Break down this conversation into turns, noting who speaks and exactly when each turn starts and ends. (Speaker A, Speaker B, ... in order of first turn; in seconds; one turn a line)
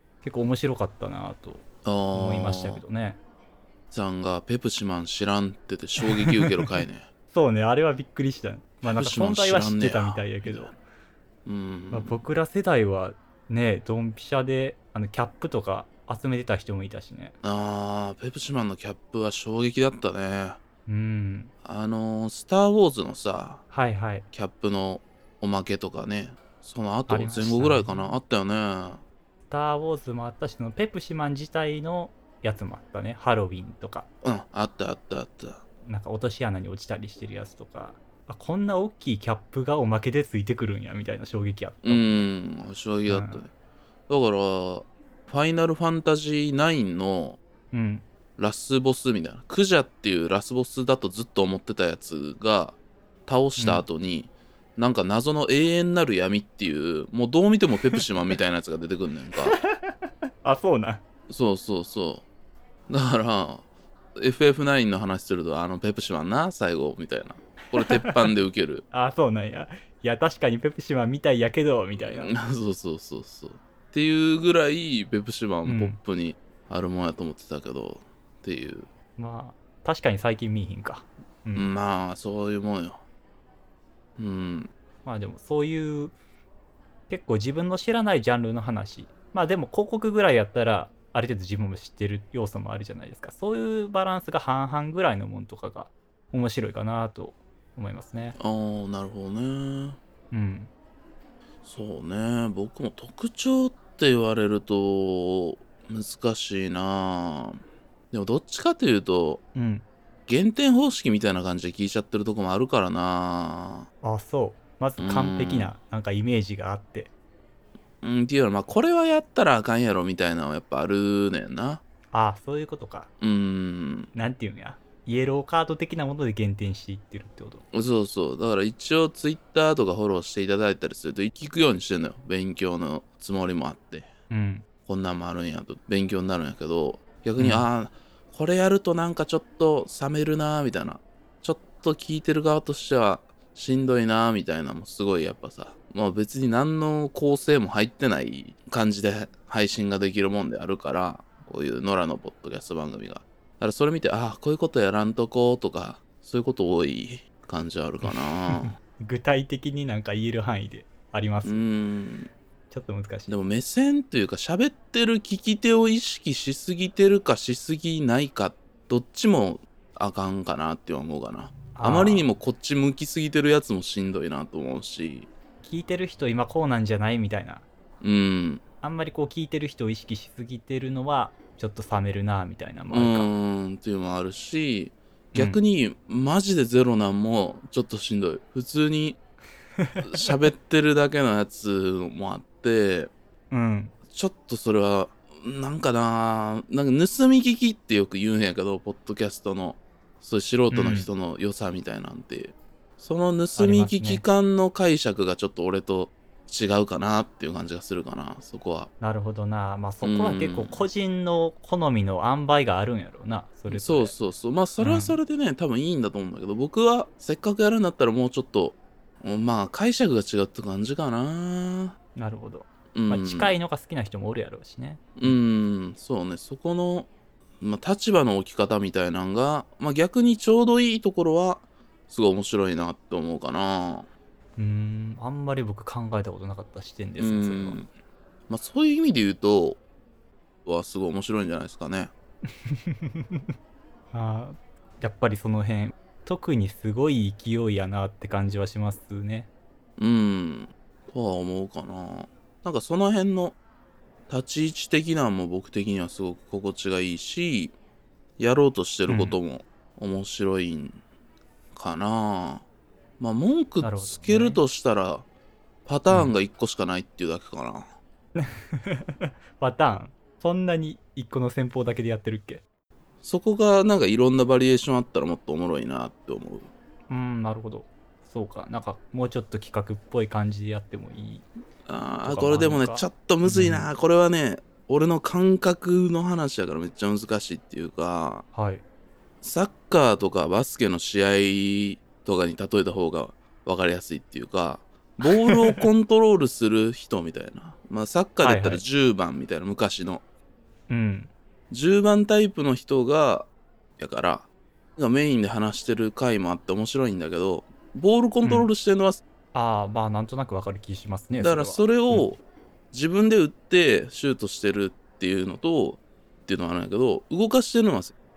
Speaker A: 0.2-3.2
Speaker B: 1.8-2.8
Speaker B: 3.9-7.1
Speaker A: 6.0-6.7
Speaker A: 7.3-10.7
Speaker B: 8.8-10.7
Speaker B: 11.4-12.2
Speaker A: 11.9-17.3
Speaker B: 17.4-20.6
Speaker A: 20.9-21.5
Speaker B: 21.6-23.6
Speaker A: 23.7-24.3
Speaker B: 24.3-29.0
Speaker A: 27.1-28.2
Speaker A: 29.5-34.1
Speaker B: 34.2-35.6
Speaker A: 35.9-42.2
Speaker B: 41.8-43.5
Speaker A: 43.1-43.4
Speaker B: 44.1-47.4
Speaker A: 47.7-48.0
Speaker B: 48.4-59.5
Speaker A: 53.6-53.8
Speaker A: 59.4-61.0
Speaker B: 61.3-62.2
Speaker B: 62.9-63.6
Speaker B: 64.2-68.8
Speaker A: 67.8-68.2
Speaker A: 68.9-72.3
Speaker B: 72.0-78.9
Speaker A: 75.7-76.0
Speaker A: 79.2-81.7
Speaker B: 81.5-83.0
Speaker B: 84.2-84.7
Speaker A: 85.0-86.1
Speaker A: 87.1-98.3
Speaker B: 98.4-100.0
Speaker A: 100.3-100.7
Speaker B: 101.6-107.6
Speaker B: 108.1-109.4
Speaker A: 109.5-109.8
Speaker B: 110.3-113.9
Speaker A: 114.0-117.1
Speaker B: 115.0-115.7
Speaker B: 118.0-121.8
Speaker A: 122.1-123.1
Speaker B: 123.2-124.1
Speaker A: 124.1-127.6
Speaker B: 127.7-134.1
Speaker A: 134.3-134.7
Speaker B: 134.8-158.7
Speaker A: 137.4-137.7
Speaker A: 158.0-161.6
Speaker B: 161.4-162.3
Speaker A: 162.7-163.3
Speaker B: 163.3-175.3
Speaker A: 171.7-172.3
Speaker A: 175.6-177.7
Speaker B: 178.0-178.6
Speaker A: 178.8-183.3
Speaker B: 182.9-189.2
Speaker A: 185.3-185.6
Speaker A: 189.8-190.1
Speaker B: 190.0-193.1
Speaker A: 193.5-193.9
Speaker B: 194.1-208.9
Speaker A: 200.7-201.1
Speaker A: 203.6-204.2
Speaker A: 209.0-214.1
Speaker B: 210.0-210.8
Speaker B: 213.7-221.9
Speaker A: 214.8-215.2
Speaker A: 222.2-225.4
Speaker B: 222.9-223.5
Speaker B: 225.2-227.1
Speaker B: 227.6-234.1
Speaker A: 234.6-237.8
Speaker B: 237.2-237.9
Speaker B: 238.5-239.8
Speaker B: 240.7-242.1
Speaker A: 242.7-243.5
Speaker A: 244.1-249.5
Speaker B: 250.0-253.6
Speaker B: 254.3-257.8
Speaker B: 258.4-261.0
Speaker A: 259.1-259.4
Speaker B: 261.7-262.6
Speaker B: 263.2-265.2
Speaker A: 263.8-264.6
Speaker B: 265.9-267.9
Speaker A: 268.3-272.6
Speaker B: 273.2-276.7
Speaker A: 277.1-281.4
Speaker B: 281.9-288.4
Speaker A: 282.2-283.9
Speaker A: 288.5-288.8
Speaker B: 289.4-300.2
Speaker A: 295.2-295.9
Speaker A: 298.4-298.8
Speaker A: 300.9-301.3
Speaker B: 301.7-309.2
Speaker A: 308.4-308.7
Speaker A: 309.5-312.3
Speaker B: 311.4-312.4
Speaker B: 312.9-318.1